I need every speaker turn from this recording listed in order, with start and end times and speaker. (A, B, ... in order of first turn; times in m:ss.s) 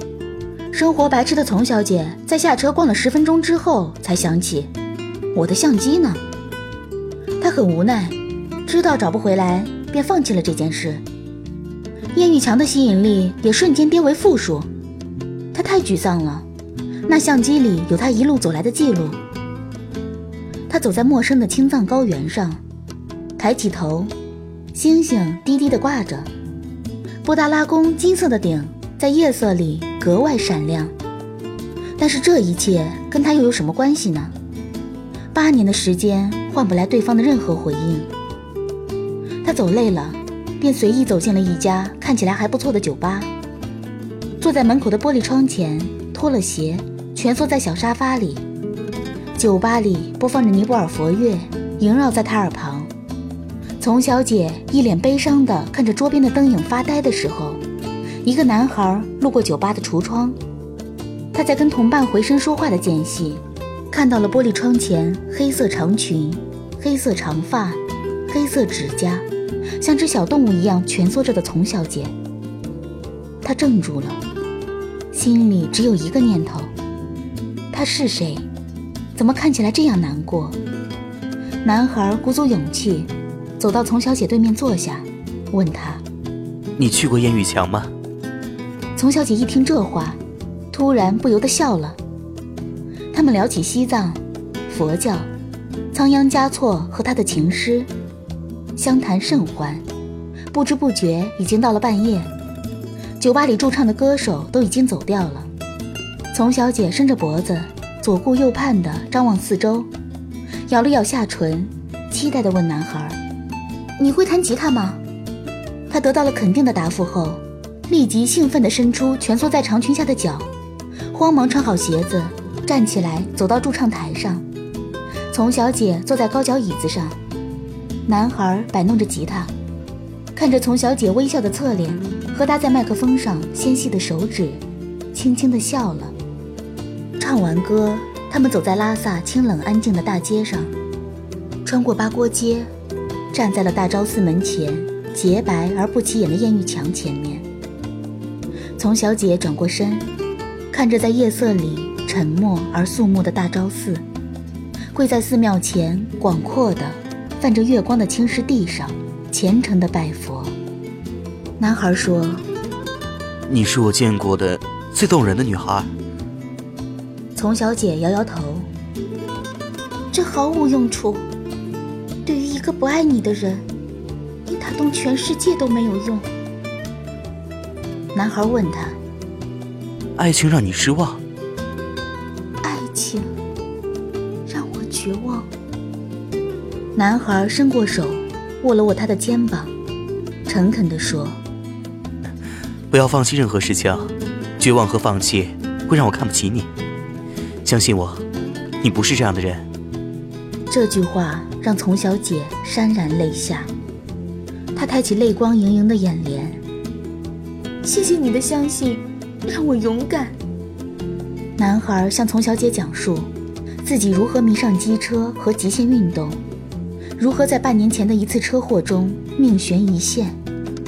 0:00.7-0:04.7 A
0:05.3-0:06.2 A
0:07.4-0:11.0 A
0:12.1-0:14.7 A
0:15.5-0:16.4 A
0:17.1-0:19.2 A
0:20.7-0:22.6 A
0:23.4-0:24.1 A
0:24.7-0:26.3 A
0:27.2-0:30.9 A
0:32.0-0:34.3 A
0:35.3-0:38.1 A
0:39.4-0:43.3 A
0:44.4-0:48.4 A
0:49.4-0:52.9 A
0:53.8-0:57.6 A
0:58.2-1:00.4 A
1:01.3-1:09.2 A
1:09.8-1:12.1 A
1:13.4-1:14.2 A
1:15.1-1:16.7 A
1:17.7-1:18.5 A
1:19.2-1:20.6 A
1:21.6-1:26.0 A
1:26.8-1:27.9 B
1:29.0-1:30.2 A
1:30.7-1:32.0 A
1:33.1-1:35.3 A
1:35.9-1:37.9 A
1:38.8-1:39.8 A
1:40.5-1:42.3 A
1:43.2-1:45.5 A
1:46.3-1:49.9 A
1:50.7-1:53.2 A
1:54.0-1:55.0 A
1:55.9-2:00.5 A
2:01.1-2:04.4 A
2:05.3-2:07.2 A
2:08.0-2:09.5 A
2:10.3-2:14.6 A
2:15.1-2:16.1 A
2:17.2-2:20.7 A
2:21.6-2:22.7 A
2:23.3-2:27.4 A
2:28.8-2:30.0 A
2:30.7-2:34.0 A
2:34.9-2:40.5 A
2:41.6-2:42.4 A
2:43.5-2:45.9 B
2:47.3-2:48.7 A
2:50.1-2:51.3 A
2:52.2-2:53.6 A
2:54.4-2:56.3 A
2:58.1-2:59.0 A
3:00.2-3:01.2 B
3:02.6-3:03.3 A
3:04.5-3:05.5 A
3:06.9-3:09.7 A
3:10.5-3:11.4 A
3:12.9-3:16.7 B
3:17.6-3:18.2 B
3:18.8-3:19.7 B
3:20.7-3:23.7 A
3:24.7-3:26.6 A
3:27.8-3:30.4 A
3:31.6-3:33.3 A
3:33.8-3:36.4 A
3:37.2-3:40.4 A